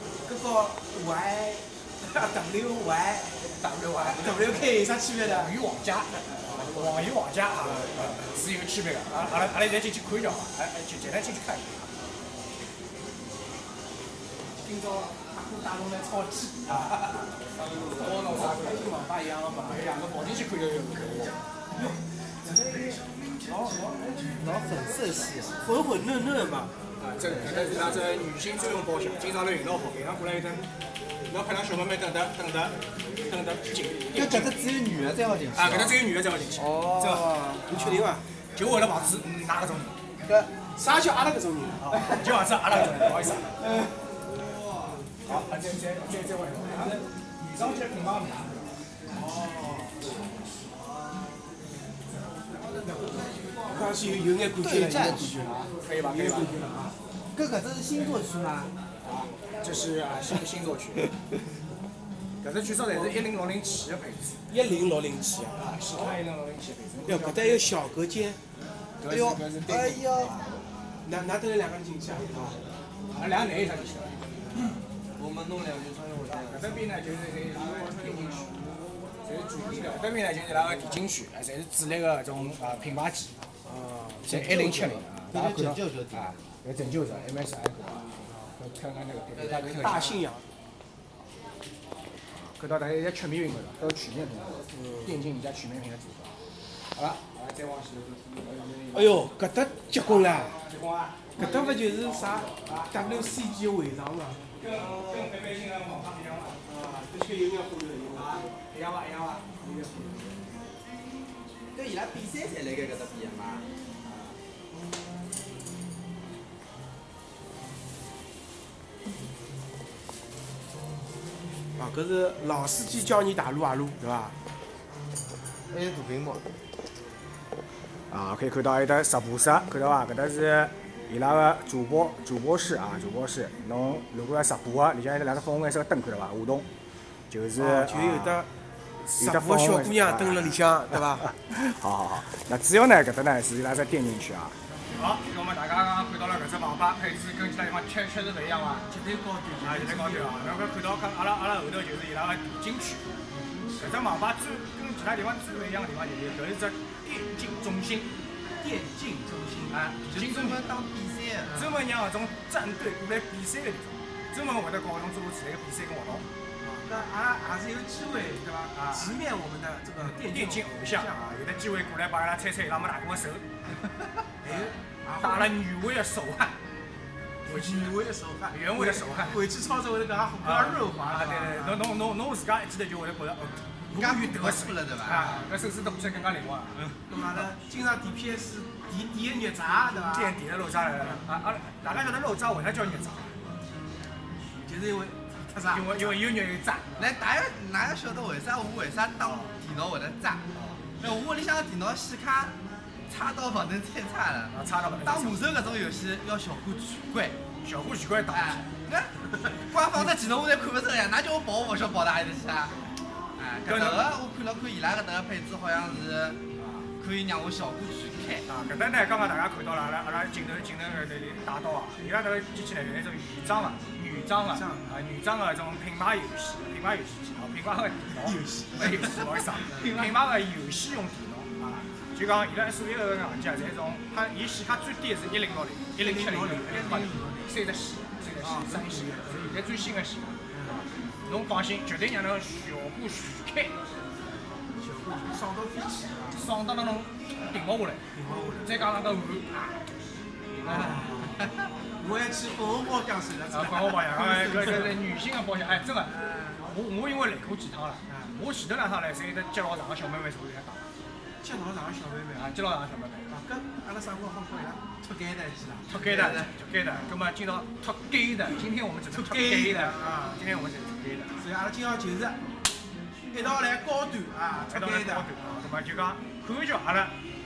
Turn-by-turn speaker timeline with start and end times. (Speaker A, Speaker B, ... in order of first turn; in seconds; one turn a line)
Speaker A: 0.2-3.4
Speaker B: 3.5-4.7
Speaker A: 4.0-5.5
Speaker B: 5.2-11.9
Speaker A: 6.4-7.0
Speaker A: 14.6-17.1
Speaker B: 16.7-17.2
Speaker C: 17.6-18.2
Speaker B: 17.8-19.0
Speaker A: 18.0-19.8
Speaker B: 19.7-21.4
Speaker A: 21.8-24.6
Speaker C: 24.3-25.6
Speaker A: 25.6-26.7
Speaker B: 27.0-30.7
Speaker C: 27.3-28.0
Speaker B: 31.3-34.6
Speaker C: 34.1-36.0
Speaker B: 35.5-37.1
Speaker C: 36.6-37.9
Speaker A: 37.0-38.2
Speaker B: 37.7-38.0
Speaker B: 38.5-40.0
Speaker C: 40.2-40.5
Speaker A: 40.7-42.0
Speaker B: 41.8-43.6
Speaker C: 44.2-45.1
Speaker B: 45.2-48.7
Speaker C: 49.2-49.6
Speaker A: 49.3-49.9
Speaker C: 52.6-54.0
Speaker A: 53.6-57.0
Speaker C: 54.5-55.5
Speaker B: 55.3-56.6
Speaker C: 57.3-58.7
Speaker B: 59.0-61.1
Speaker B: 62.4-64.4
Speaker A: 62.9-63.2
Speaker A: 64.5-65.6
Speaker B: 65.6-67.7
Speaker A: 67.0-68.4
Speaker B: 69.0-70.6
Speaker A: 69.1-69.4
Speaker C: 69.7-70.5
Speaker A: 71.0-72.5
Speaker B: 73.1-74.8
Speaker C: 75.2-76.8
Speaker B: 76.3-78.6
Speaker B: 79.2-83.3
Speaker A: 83.8-85.0
Speaker B: 84.2-90.1
Speaker C: 84.3-86.5
Speaker C: 89.3-90.2
Speaker A: 89.7-90.4
Speaker B: 92.5-96.4
Speaker B: 96.9-99.3
Speaker A: 98.9-100.5
Speaker B: 99.9-103.5
Speaker A: 101.3-104.5
Speaker B: 104.6-106.6
Speaker C: 104.7-105.4
Speaker A: 106.6-108.5
Speaker B: 108.1-109.5
Speaker A: 109.6-110.4
Speaker C: 111.7-113.7
Speaker B: 114.0-114.4
Speaker A: 121.8-124.4
Speaker C: 125.7-126.4
Speaker B: 128.1-136.7
Speaker B: 137.3-138.4
Speaker A: 137.6-138.5
Speaker B: 139.0-140.6
Speaker A: 139.2-141.3
Speaker B: 141.2-148.9
Speaker A: 148.9-150.5
Speaker B: 149.6-153.1
Speaker B: 153.8-158.1
Speaker A: 158.6-160.0
Speaker B: 159.7-160.7
Speaker C: 160.0-161.6
Speaker A: 161.5-161.8
Speaker B: 161.5-166.3
Speaker A: 166.8-171.4
Speaker B: 168.7-169.2
Speaker B: 170.1-173.5
Speaker A: 174.4-175.6
Speaker B: 174.5-176.6
Speaker A: 177.4-181.9
Speaker B: 177.5-179.4
Speaker B: 180.4-187.5
Speaker C: 183.9-185.3
Speaker A: 185.1-185.5
Speaker A: 187.1-190.4
Speaker B: 190.0-193.5
Speaker A: 194.6-196.2
Speaker B: 195.7-197.2
Speaker C: 197.0-200.4
Speaker B: 200.6-200.8
Speaker C: 201.0-207.4
Speaker B: 204.5-205.7
Speaker B: 207.6-208.7
Speaker C: 208.3-212.8
Speaker C: 213.4-216.4
Speaker B: 213.7-214.1
Speaker B: 216.6-216.9
Speaker C: 217.0-218.5
Speaker B: 218.5-240.4
Speaker A: 224.4-225.0
Speaker A: 228.1-230.0
Speaker A: 236.0-237.5
Speaker A: 238.4-239.6
Speaker A: 240.5-240.9
Speaker B: 241.3-243.8
Speaker A: 244.8-246.4
Speaker B: 246.3-248.0
Speaker A: 248.1-248.9
Speaker B: 248.7-249.7
Speaker B: 250.5-251.2
Speaker A: 250.6-251.4
Speaker A: 252.0-255.0
Speaker B: 253.5-260.8
Speaker C: 256.1-256.6
Speaker A: 258.1-258.4
Speaker A: 261.4-262.5
Speaker B: 262.3-263.3
Speaker A: 263.3-265.9
Speaker B: 265.9-271.4
Speaker C: 266.0-266.5
Speaker A: 269.1-270.4
Speaker A: 271.4-272.4
Speaker A: 273.3-275.4
Speaker B: 274.7-277.1